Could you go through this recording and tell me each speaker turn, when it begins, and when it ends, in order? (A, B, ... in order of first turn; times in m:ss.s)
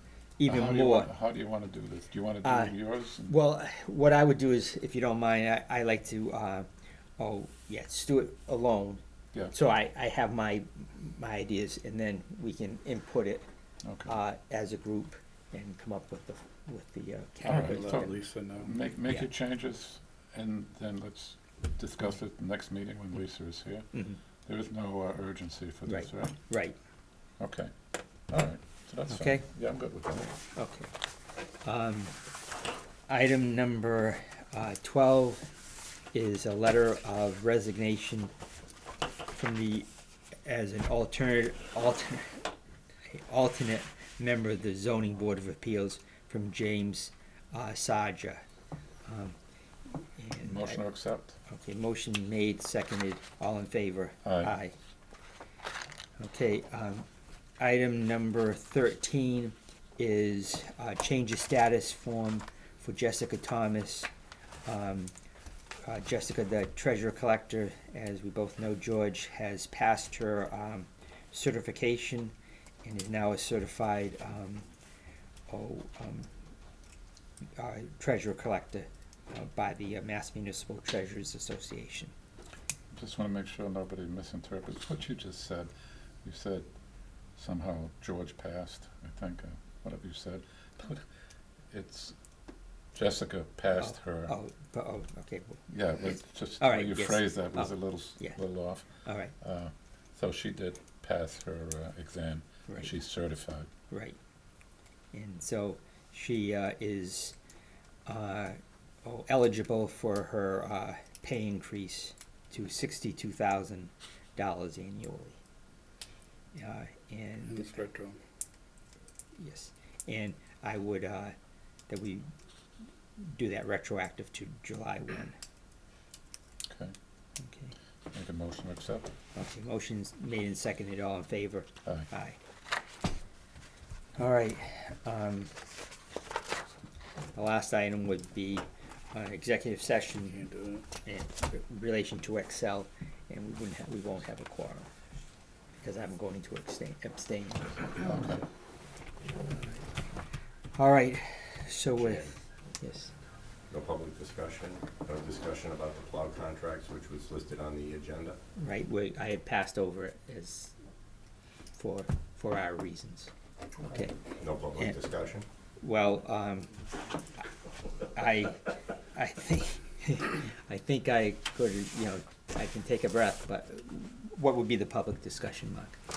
0:00.4-0:01.1 A
0:00.5-0:03.4 B
0:02.4-0:06.7 A
0:07.2-0:09.0 A
0:09.5-0:13.5 A
0:13.8-0:14.2 B
0:14.1-0:18.1 A
0:17.4-0:18.7 C
0:17.4-0:23.9 B
0:23.9-0:24.2 A
0:24.5-0:26.4 B
0:25.9-0:26.8 A
0:27.4-0:27.7 B
0:28.3-0:30.4 B
0:29.1-0:29.4 A
0:30.6-0:30.9 A
0:31.6-0:32.1 A
0:33.1-0:35.5 A
0:36.1-0:38.3 A
0:39.3-0:39.9 A
0:40.4-0:42.4 A
0:43.1-0:48.4 A
0:49.0-0:49.4 A
0:50.0-0:50.8 A
0:50.4-0:51.4 B
0:51.5-0:54.8 A
0:54.2-0:54.5 B
0:56.2-0:57.0 A
0:57.6-1:04.1 A
1:04.6-1:05.1 A
1:05.8-1:14.7 A
1:15.5-1:16.3 A
1:17.6-1:22.1 A
1:22.9-1:25.7 B
1:26.2-1:26.7 B
1:27.4-1:31.0 B
1:31.7-1:32.2 B
1:32.9-1:34.4 B
1:33.8-1:35.6 A
1:35.7-1:38.9 B
1:36.6-1:38.4 A
1:39.0-1:39.3 A
1:39.4-1:43.7 B
1:43.9-1:44.2 A
1:45.1-1:47.4 A
1:48.1-1:55.4 A
1:56.5-1:57.7 A
1:57.5-1:58.2 C
1:59.4-2:01.4 A
2:01.9-2:02.3 A
2:03.2-2:05.4 A
2:06.7-2:07.0 B
2:07.4-2:07.8 A
2:08.1-2:09.1 B
2:09.4-2:12.4 A
2:14.2-2:15.5 A
2:17.4-2:20.5 A
2:20.3-2:20.9 C
2:21.0-2:24.9 A
2:25.8-2:28.2 A
2:28.0-2:28.4 B
2:30.7-2:33.1 A
2:32.0-2:32.3 D
2:33.7-2:38.4 D
2:38.6-2:40.8 A
2:41.7-2:43.3 A
2:43.8-2:44.2 A
2:44.3-2:45.5 D
2:45.8-2:46.7 A
2:48.2-2:56.0 A